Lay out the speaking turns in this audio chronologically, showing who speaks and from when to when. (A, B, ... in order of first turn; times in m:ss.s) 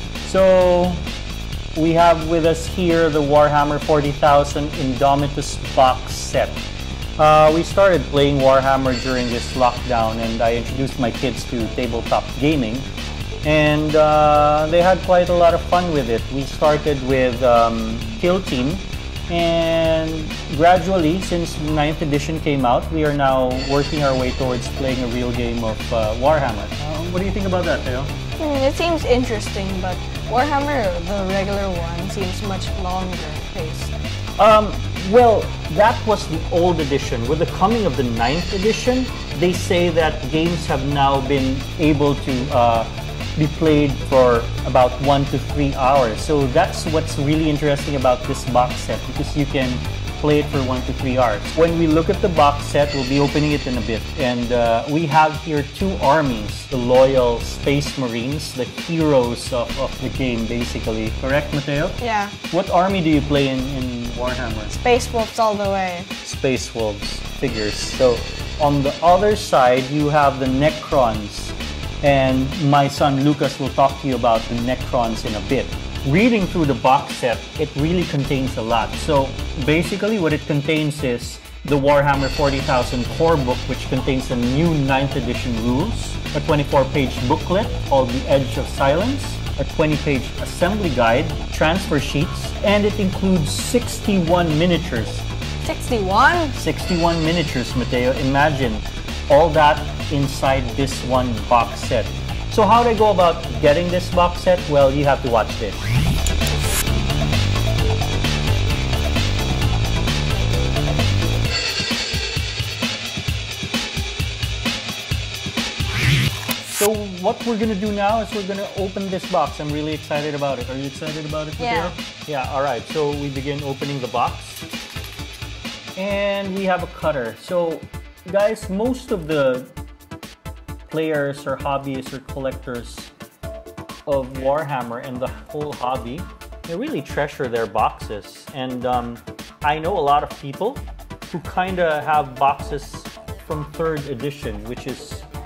0:00.2-0:01.0 A
0:01.7-0:06.6 A
0:07.2-0:12.9 A
0:13.4-0:28.1 A
0:28.4-0:34.0 B
0:34.4-1:02.0 A
1:02.0-1:02.4 B
1:02.5-1:04.8 A
1:04.7-1:06.1 B
1:06.2-1:35.2 A
1:35.6-1:36.6 B
1:36.6-1:45.8 A
1:56.7-2:04.7 A
2:01.6-2:01.9 B
2:06.0-2:09.7 A
2:10.9-2:13.1 A
2:14.0-2:25.2 A